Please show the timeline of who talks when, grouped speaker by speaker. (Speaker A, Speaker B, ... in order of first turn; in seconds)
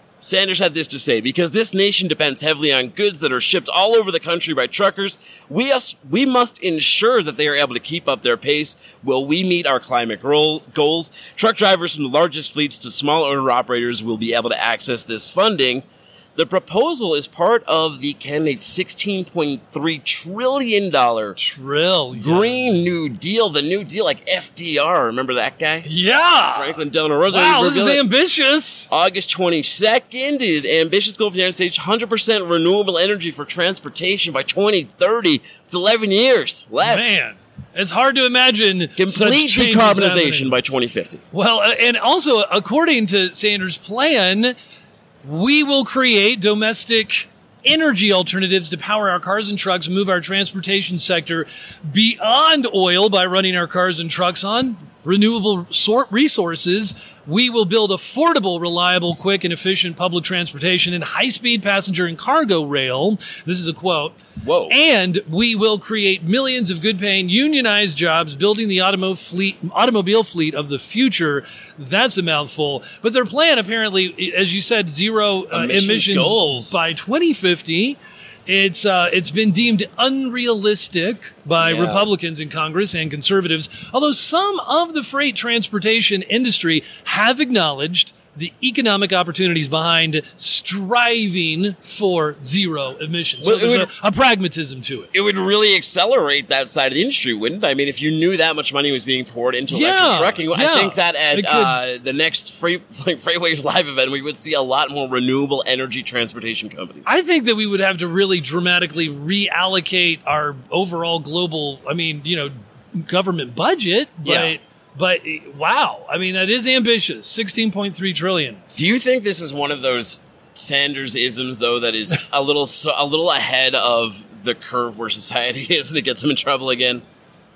Speaker A: 0.2-15.8, 16.4-21.4, 22.2-25.9, 26.5-28.0, 28.9-37.2, 39.0-41.2, 64.4-64.7, 75.5-76.8, 81.6-82.1, 93.4-93.9, 95.1-107.0, 114.2-114.5, 118.7-127.0
Speaker B: 21.4-22.6, 25.8-26.8, 27.3-28.9, 36.8-40.5, 41.3-44.5, 45.2-64.2, 64.7-95.1, 99.7-101.8, 107.0-118.6